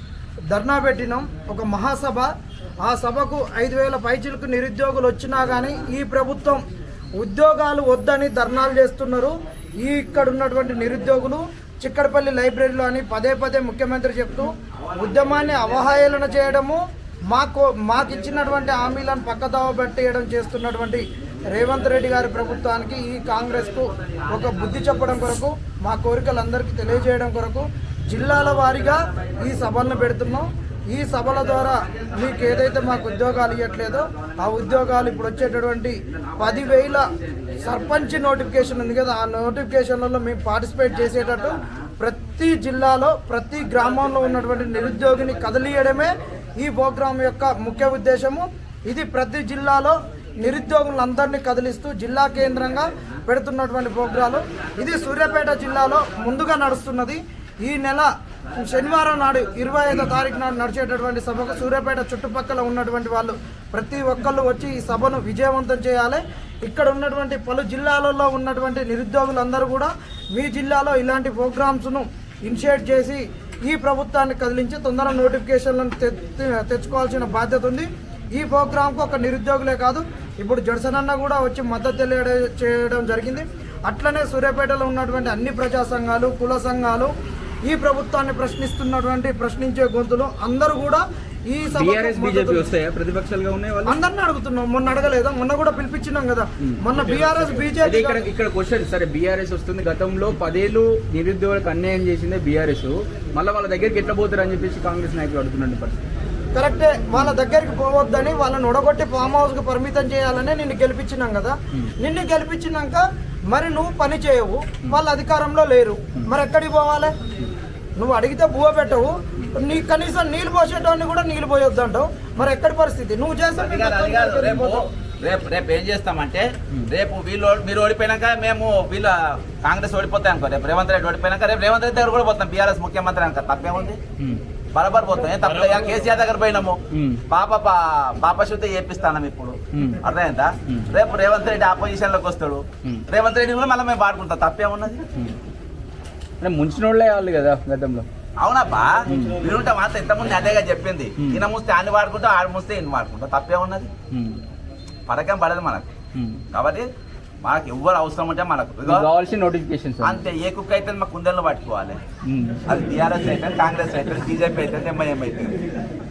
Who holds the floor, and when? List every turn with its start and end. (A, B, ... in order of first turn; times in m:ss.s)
0:00.5-0:02.3 A
0:02.8-0:06.6 A
0:07.2-0:58.1 A
0:58.6-1:27.1 A
1:27.6-1:32.6 A
1:31.7-1:34.0 B
1:33.8-1:38.2 A
1:36.6-1:46.0 B
1:46.5-1:57.1 A
1:47.1-1:47.4 B
1:58.0-2:04.8 A
2:03.6-2:14.0 C
2:14.7-2:25.0 C
2:16.9-2:17.2 B
2:19.7-2:20.0 B
2:26.4-2:28.1 B
2:28.4-2:33.9 C
2:29.1-2:29.5 B
2:31.2-2:31.4 B
2:34.1-2:34.4 B
2:35.1-2:35.9 C
2:36.1-2:36.4 B
2:36.5-2:36.9 C
2:37.4-2:39.1 C
2:38.8-2:40.2 B
2:40.0-2:42.0 C
2:42.2-2:42.6 B
2:42.7-2:45.6 C